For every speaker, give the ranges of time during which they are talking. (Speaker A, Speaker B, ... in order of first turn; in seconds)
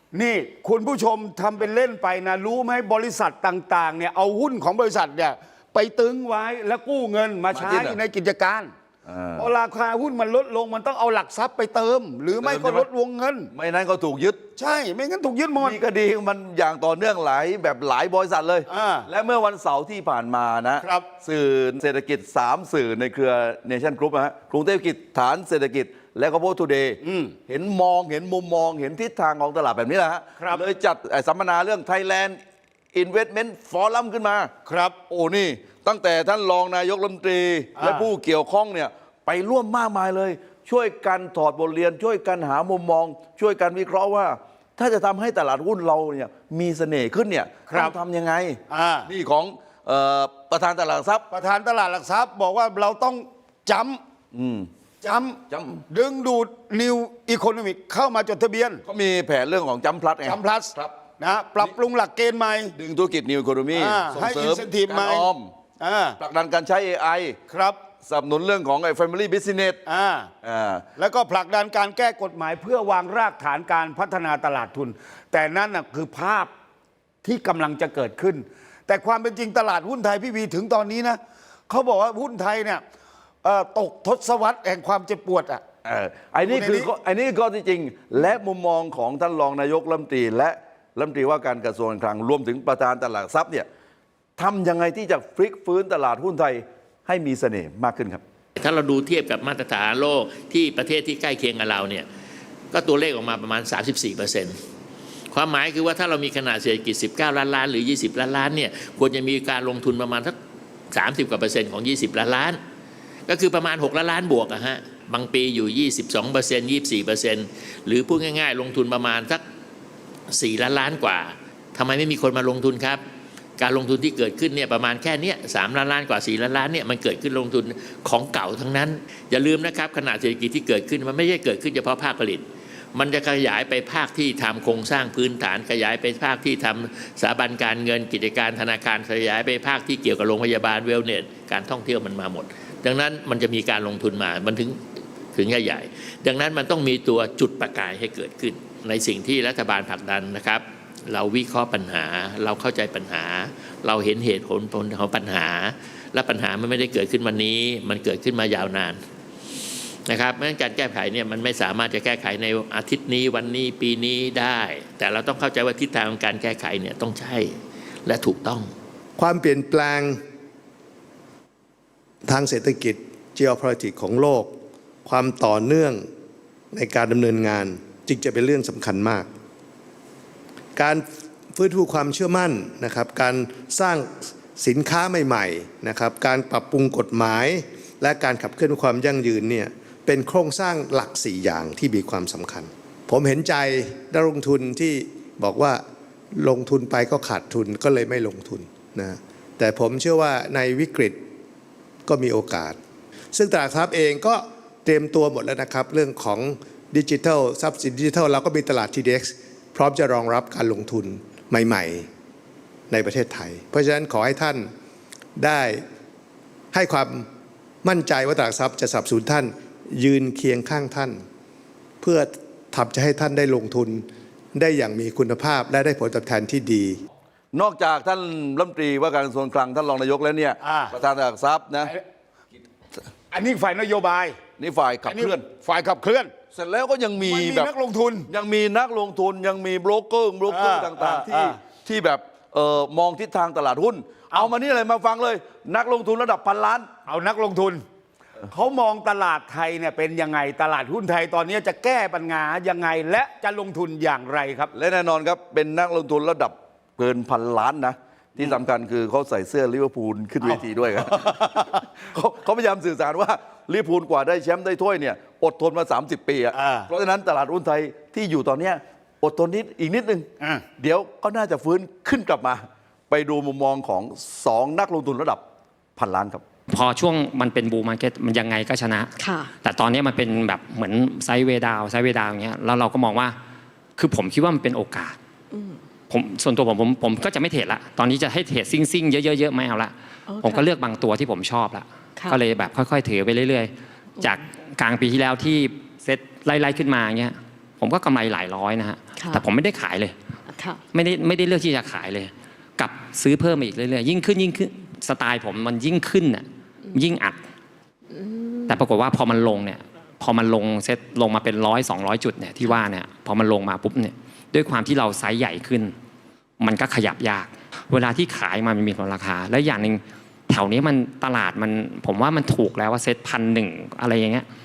Speaker A: 0.1-8.7, 9.3-13.5, 14.6-15.8, 18.7-19.1, 20.8-21.1, 27.0-27.4, 30.4-30.6, 34.6-35.0, 37.8-38.0, 47.7-47.9, 48.7-49.1, 51.3-54.0, 55.0-58.8, 60.2-62.7, 63.7-65.3, 65.8-66.2, 67.5-67.8, 69.8-70.3, 71.0-76.5, 77.2-82.8, 83.4-85.6, 86.4-86.9, 230.6-230.9, 233.3-234.4, 235.0-236.3, 237.2-238.3, 240.5-241.6, 247.1-247.8, 248.5-254.7, 260.4-261.6, 266.5-266.9
Speaker B: 7.5-8.0, 9.1-9.5, 12.4-12.9, 13.5-14.4, 15.6-32.4, 32.9-34.5, 35.1-51.2, 54.3-54.7, 55.5-55.8, 58.9-60.9, 62.8-65.5, 66.2-67.4, 68.0-69.8, 70.4-70.8, 85.8-93.7, 94.4-98.2, 227.5-231.9, 234.6-235.4, 236.5-237.7, 238.3-246.9, 254.7-270.3, 270.8-275.4, 275.9-276.4
Speaker C: 98.5-102.1, 102.7-104.6, 105.3-110.3, 110.9-112.6, 113.3-119.4, 120.3-123.0, 123.6-144.8, 145.3-159.0, 160.1-167.5, 168.1-168.7
Speaker D: 169.2-170.2, 172.2-174.5, 175.0-176.1, 176.7-179.3, 180.8-195.8, 196.3-201.2, 202.1-202.8, 203.3-212.1, 212.9-214.7, 215.4-215.8, 216.7-217.2, 217.8-221.2, 222.0-227.0
Speaker E: 276.7-283.4, 284.0-285.1, 286.1-300.1, 300.9-307.4, 308.7-315.9, 316.6-324.4
Speaker F: 279.2-279.5, 285.5-285.8, 290.3-290.6, 300.5-300.8, 308.1-308.8